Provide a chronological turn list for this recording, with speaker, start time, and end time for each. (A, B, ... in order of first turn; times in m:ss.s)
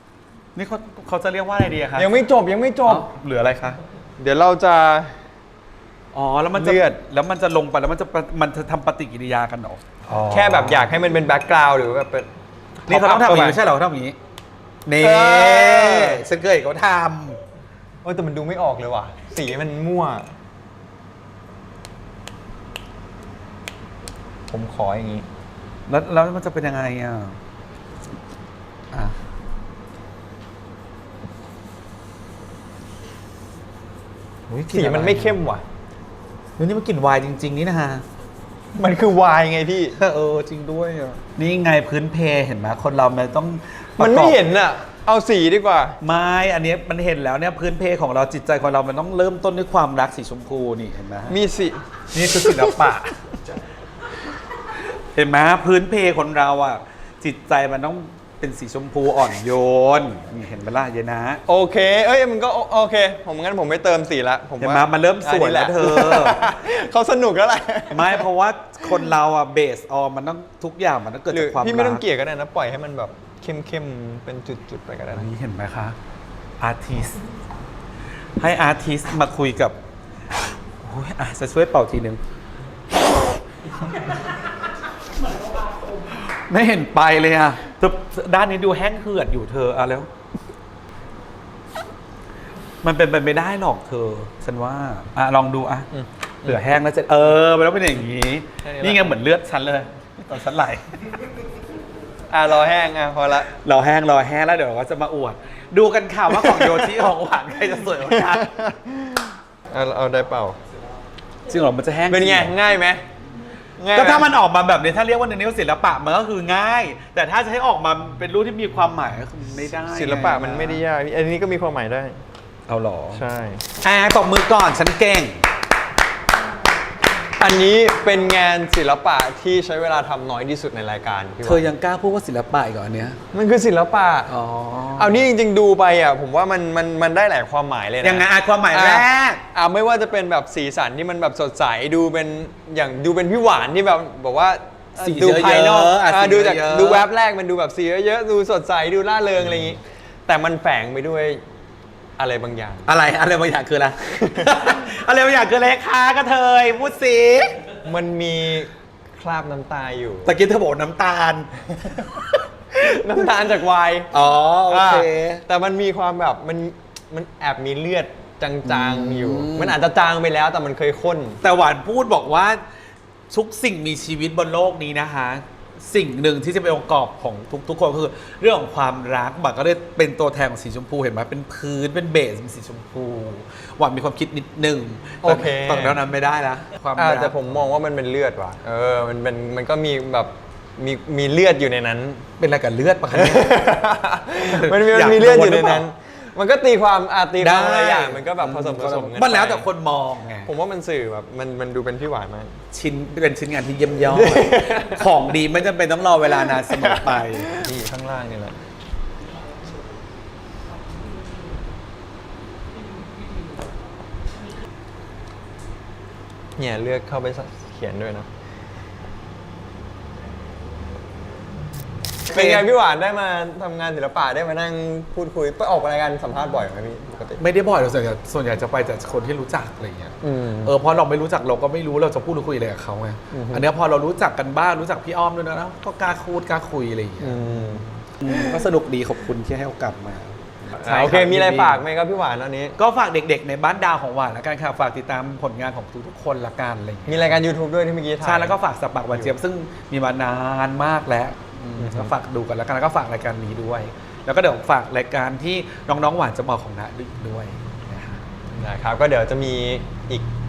0:00.5-0:02.1 A
0:01.9-0:03.1 B
0:02.8-0:03.8 A
0:04.2-0:05.1 B
0:06.1-0:10.9 A
0:06.5-0:07.0 B
0:10.3-0:12.3 B
0:12.8-0:13.6 B
0:12.9-0:14.2 A
0:14.8-0:17.4 A
0:15.0-0:16.2 B
0:18.0-0:20.3 B
0:24.5-0:25.3 B
0:25.9-0:27.4 A
0:34.5-0:35.4 A
0:34.7-0:35.6 B
0:36.6-0:38.0 A
0:38.8-0:40.0 B
0:40.0-0:44.4 A
0:44.0-0:46.0 B
0:46.0-0:51.3 A
0:51.3-0:51.8 B
0:52.1-0:53.2 A
0:55.1-1:01.4 A
1:01.5-1:08.2 B
1:04.6-1:06.4 A
1:07.9-1:12.0 A
1:11.3-1:15.3 B
1:15.1-1:16.0 A
1:16.6-1:17.2 A
1:18.4-1:19.7 A
1:20.8-1:22.2 A
1:26.1-1:30.1 A
1:32.8-1:35.9 A
1:35.9-1:36.6 B
1:36.4-1:41.0 A
1:38.6-1:39.2 B
1:42.3-1:43.5 B
1:43.6-1:48.5 A
1:46.3-1:47.0 B
1:48.1-1:50.6 B
1:51.5-1:52.5 A
1:52.1-1:53.0 B
1:53.8-1:54.3 B
1:53.9-2:00.8 A
1:59.8-2:02.2 B
2:02.7-2:03.2 A
2:03.1-2:03.6 B
2:03.8-2:05.4 A
2:07.4-2:11.7 B
2:11.4-2:13.2 A
2:13.3-2:14.3 B
2:14.3-2:15.2 A
2:14.9-2:31.4 B
2:18.0-2:19.4 A
2:25.0-2:27.1 A
2:32.2-2:32.9 B
2:32.8-2:37.6 A
2:34.2-2:34.8 B
2:37.8-2:40.3 B
2:40.2-2:42.9 A
2:42.7-2:44.1 B
2:44.1-2:45.4 A
2:44.7-2:51.4 B
2:48.6-2:49.8 A
2:51.4-2:52.6 A
2:53.3-3:07.5 A
3:05.2-3:06.0 B
3:07.0-3:12.3 B
3:12.4-3:13.6 A
3:13.1-3:19.7 B
3:14.4-3:15.8 A
3:17.4-3:20.5 A
3:20.4-3:22.6 B
3:22.7-3:27.5 A
3:24.1-3:25.1 B
3:26.4-3:28.6 B
3:36.6-3:38.3 B
3:42.3-3:47.4 B
3:42.3-3:42.6 A
3:47.4-3:57.4 A
3:50.2-3:50.7 B
3:53.3-3:53.7 B
3:57.2-3:58.6 B
3:58.2-4:01.8 A
4:00.7-4:02.8 B
4:02.8-4:07.4 A
4:07.1-4:08.6 B
4:08.2-4:18.2 A
4:11.8-4:12.1 B
4:18.5-4:20.3 B